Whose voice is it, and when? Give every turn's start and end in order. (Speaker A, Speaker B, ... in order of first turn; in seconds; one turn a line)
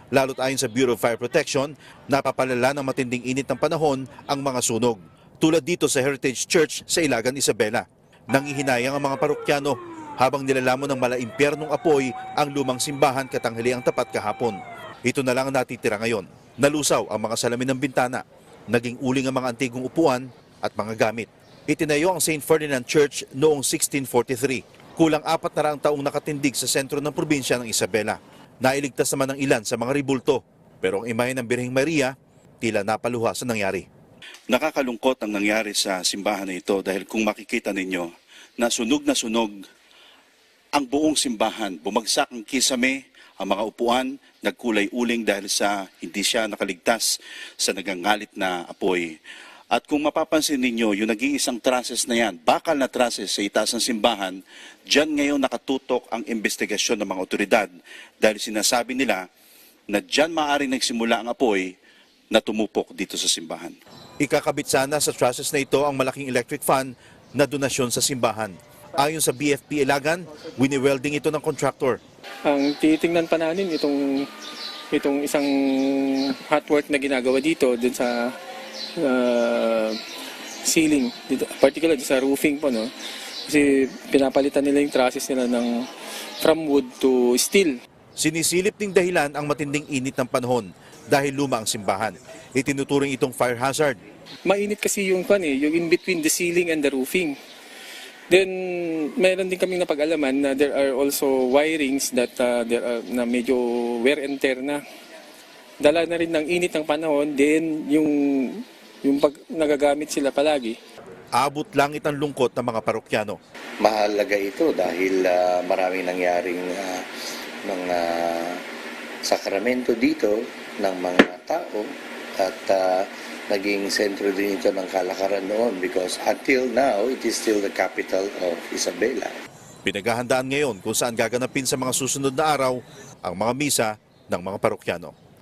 Speaker A: 0.1-33.9
Speaker A: 34.5-39.6
Speaker A: 40.7-49.2
Speaker A: 49.7-59.2
Speaker A: 59.9-61.7
Speaker A: 62.3-72.0
Speaker B: 72.5-74.2
Speaker B: 74.9-78.3
Speaker B: 79.0-80.0
Speaker B: 80.6-82.9
Speaker B: 83.5-85.8
Speaker B: 86.4-87.8
Speaker A: 88.2-94.0
Speaker B: 94.5-97.4
Speaker B: 98.3-104.8
Speaker B: 105.8-110.7
Speaker A: 111.3-113.4
Speaker C: 113.8-117.0
Speaker C: 117.6-118.6
Speaker C: 119.2-129.3
Speaker A: 129.8-135.1